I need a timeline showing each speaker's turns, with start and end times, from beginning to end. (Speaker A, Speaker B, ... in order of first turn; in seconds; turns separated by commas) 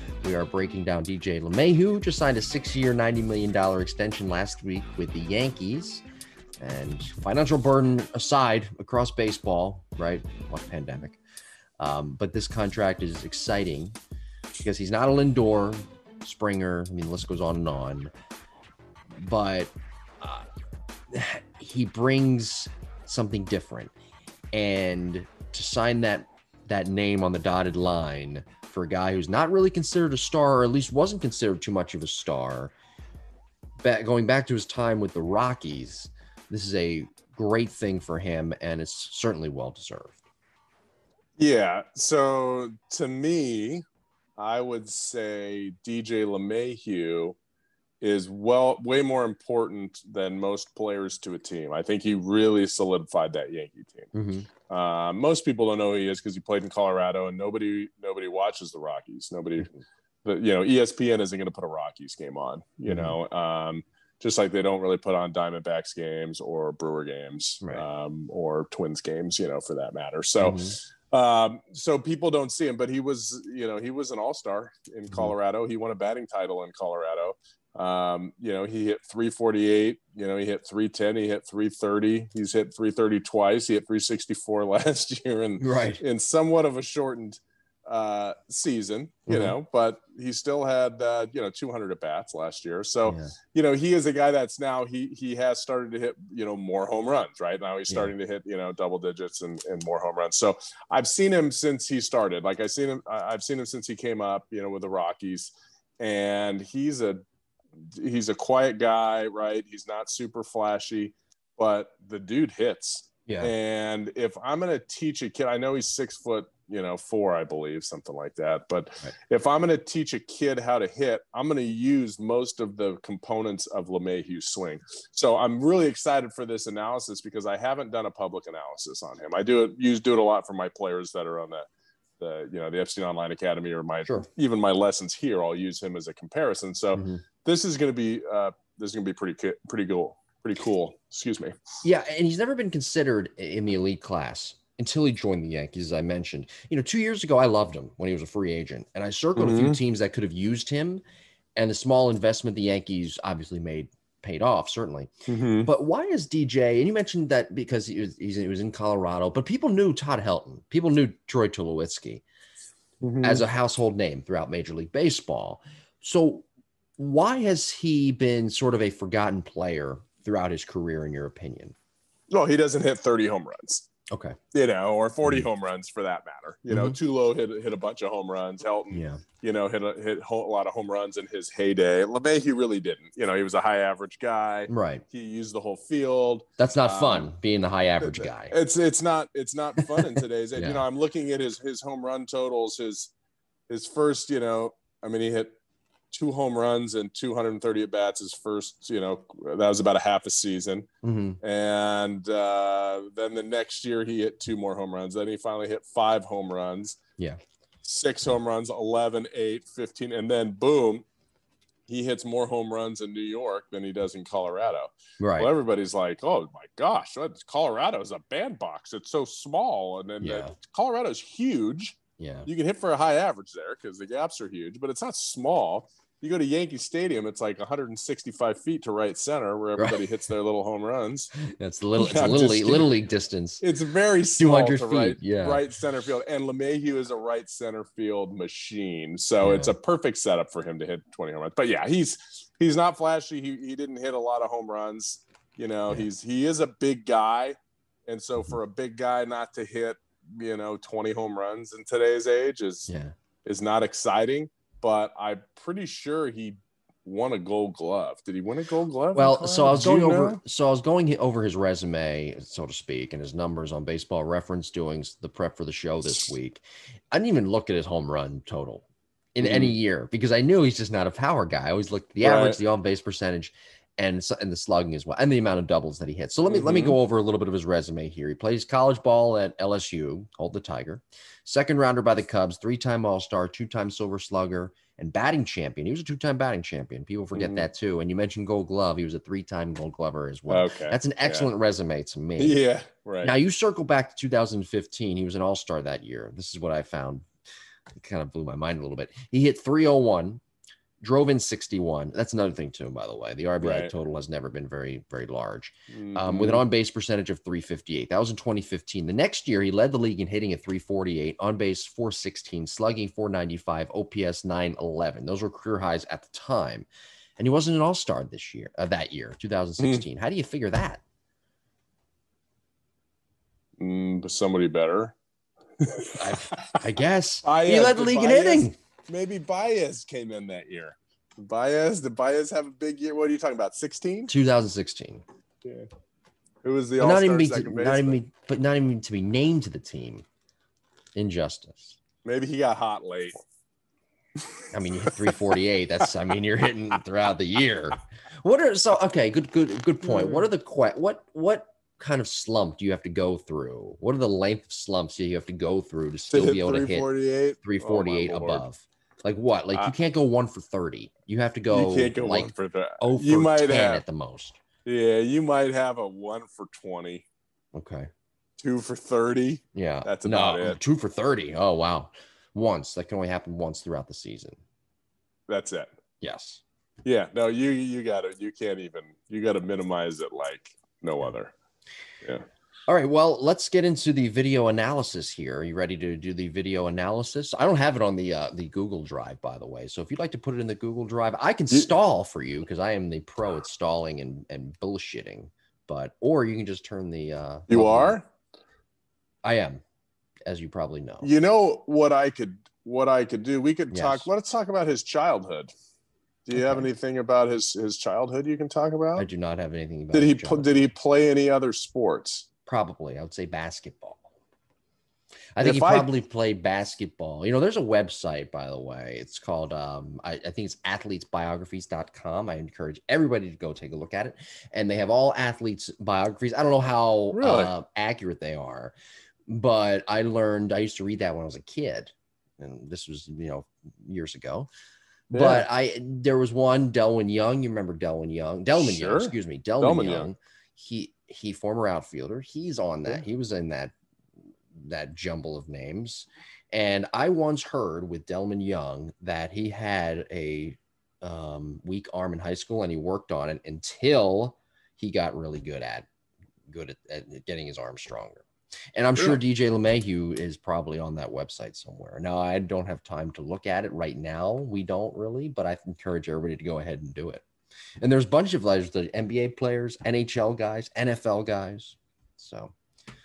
Speaker A: 0.2-6.0, Speaker A: 6.6-11.2, Speaker A: 11.8-13.9, Speaker A: 14.6-18.1, Speaker A: 19.2-20.5, Speaker A: 21.1-23.9, Speaker A: 24.5-32.7, Speaker A: 33.8-40.2, Speaker B: 41.4-43.8, Speaker B: 44.4-47.4, Speaker B: 48.0-59.7, Speaker A: 54.1-54.5, Speaker B: 60.2-107.2, Speaker A: 62.9-63.2, Speaker A: 70.4-70.8, Speaker A: 85.6-86.0, Speaker A: 89.3-89.5, Speaker A: 93.1-93.3, Speaker A: 97.9-98.1, Speaker B: 107.8-131.7, Speaker A: 113.3-113.5, Speaker B: 132.2-141.6, Speaker A: 136.9-137.2, Speaker A: 141.8-151.0, Speaker B: 149.4-149.8, Speaker A: 151.6-155.1, Speaker B: 155.3-155.7, Speaker A: 155.6-162.2, Speaker B: 163.0-163.4, Speaker A: 163.2-166.5, Speaker A: 167.0-171.8, Speaker B: 172.3-173.9, Speaker A: 174.1-174.4, Speaker B: 174.5-187.3, Speaker A: 176.7-177.0, Speaker A: 178.9-179.2, Speaker A: 184.7-185.0, Speaker A: 186.6-188.6, Speaker B: 188.0-193.1, Speaker A: 190.6-190.8, Speaker B: 193.7-195.5, Speaker B: 196.1-200.9, Speaker A: 201.0-201.4, Speaker B: 201.4-207.0, Speaker B: 207.8-211.1, Speaker B: 211.9-231.3, Speaker A: 215.2-215.5, Speaker A: 220.2-220.6, Speaker A: 222.2-222.5, Speaker A: 231.4-233.7, Speaker B: 232.0-232.9, Speaker B: 233.6-252.9, Speaker A: 234.4-235.7, Speaker A: 239.4-239.7, Speaker A: 252.9-253.1, Speaker B: 253.4-260.4, Speaker A: 259.1-292.6, Speaker B: 269.4-269.8, Speaker B: 272.2-272.6, Speaker B: 276.4-277.0, Speaker B: 287.3-287.7, Speaker B: 290.5-291.5, Speaker B: 292.4-293.3, Speaker A: 293.2-297.3, Speaker A: 297.9-300.4, Speaker A: 301.0-316.9, Speaker B: 303.6-303.9, Speaker B: 305.9-306.6, Speaker A: 317.4-321.0, Speaker B: 319.8-320.0, Speaker B: 323.8-325.1, Speaker B: 325.8-326.8, Speaker A: 326.2-328.8, Speaker B: 327.4-334.3, Speaker A: 334.3-335.2, Speaker B: 336.6-338.2, Speaker A: 337.0-340.2, Speaker A: 341.1-342.0, Speaker B: 342.2-343.4, Speaker B: 344.6-345.4, Speaker A: 344.7-357.1, Speaker B: 350.0-350.5, Speaker B: 356.3-358.6, Speaker A: 357.6-364.6, Speaker B: 361.7-364.0, Speaker B: 364.8-367.2, Speaker A: 367.7-368.1, Speaker B: 368.6-370.8, Speaker A: 369.7-374.6, Speaker B: 375.5-375.9, Speaker A: 376.2-376.6, Speaker B: 377.0-381.5, Speaker A: 382.9-398.2, Speaker B: 397.7-398.3, Speaker A: 399.4-399.8, Speaker A: 400.4-401.3, Speaker B: 401.2-405.7, Speaker A: 403.9-404.3, Speaker B: 406.4-409.3, Speaker A: 406.5-406.9, Speaker A: 409.1-410.7, Speaker B: 410.1-412.5, Speaker A: 412.6-414.3, Speaker A: 415.6-428.9, Speaker B: 415.6-416.1, Speaker B: 427.3-427.7, Speaker A: 429.5-434.7, Speaker B: 435.3-435.7, Speaker A: 435.3-443.9, Speaker B: 438.8-440.3, Speaker A: 444.8-456.1, Speaker A: 456.7-467.4, Speaker A: 468.0-472.8